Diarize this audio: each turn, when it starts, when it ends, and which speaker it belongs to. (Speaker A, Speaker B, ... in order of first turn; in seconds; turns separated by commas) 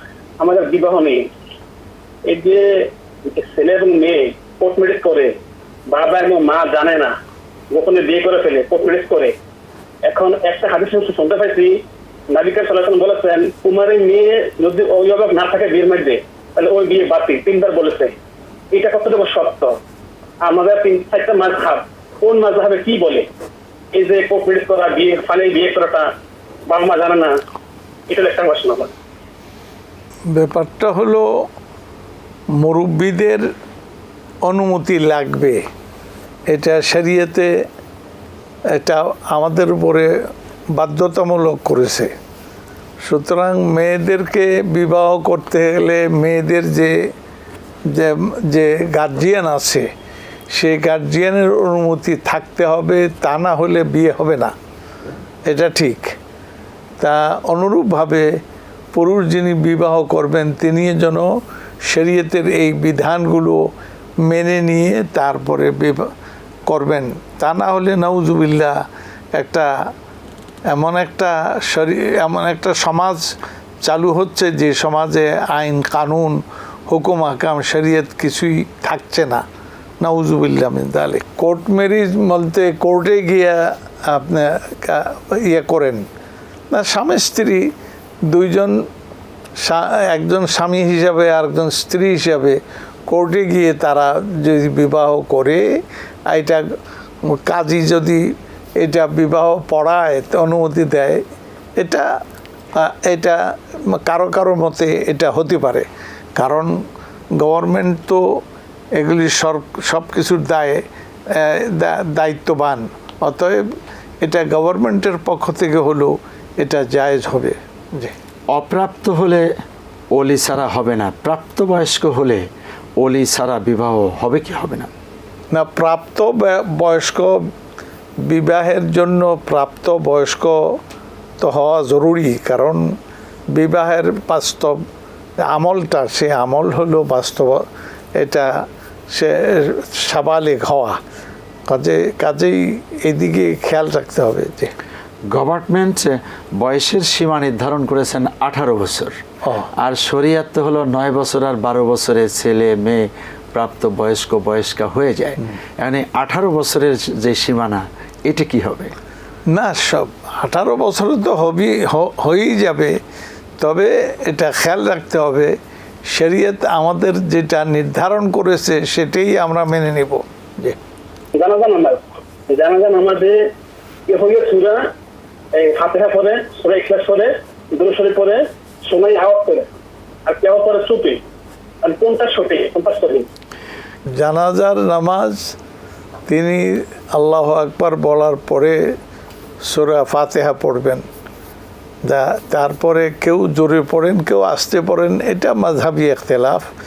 Speaker A: 0.4-1.2, Speaker A: 2.3-5.3, Speaker A: 5.9-7.1, Speaker A: 7.7-9.3, Speaker A: 10.1-11.8, Speaker A: 12.3-18.1, Speaker A: 18.7-19.7, Speaker A: 20.4-23.2, Speaker A: 23.9-26.1, Speaker A: 26.7-27.4, Speaker A: 28.1-28.9, Speaker B: 30.3-31.4, Speaker B: 32.6-33.4, Speaker B: 34.5-35.6, Speaker B: 36.5-37.5, Speaker B: 38.7-40.1, Speaker B: 40.8-42.1, Speaker B: 43.0-46.9, Speaker B: 47.9-49.9, Speaker B: 50.5-54.5, Speaker B: 55.5-56.1, Speaker B: 57.0-58.3, Speaker B: 58.9-61.3, Speaker B: 61.9-63.6, Speaker B: 64.3-66.0, Speaker B: 66.7-68.8, Speaker B: 69.3-69.7, Speaker B: 70.7-73.3, Speaker B: 73.8-79.4, Speaker B: 80.0-86.0, Speaker B: 86.7-87.7, Speaker B: 88.3-88.8, Speaker B: 89.6-95.6, Speaker B: 96.3-96.6, Speaker B: 97.2-98.2, Speaker B: 98.8-101.2, Speaker B: 101.8-102.1, Speaker B: 102.8-106.8, Speaker B: 107.4-108.2, Speaker B: 109.0-113.6, Speaker B: 114.2-118.1, Speaker C: 118.5-119.5, Speaker C: 120.1-122.4, Speaker C: 123.0-124.9, Speaker B: 125.5-127.4, Speaker B: 128.2-130.7, Speaker B: 131.4-132.8, Speaker B: 133.5-134.8, Speaker B: 135.5-137.6, Speaker B: 138.2-138.5, Speaker B: 139.1-141.0, Speaker B: 141.7-144.7, Speaker C: 145.3-149.2, Speaker C: 149.8-158.9, Speaker B: 159.5-162.9, Speaker B: 163.6-165.5, Speaker B: 166.1-170.8, Speaker A: 171.3-173.4, Speaker A: 174.1-174.9, Speaker A: 175.6-179.7, Speaker A: 180.2-181.2, Speaker A: 181.8-183.2, Speaker B: 184.2-185.5, Speaker B: 186.3-188.8, Speaker B: 189.7-191.0, Speaker B: 192.1-196.7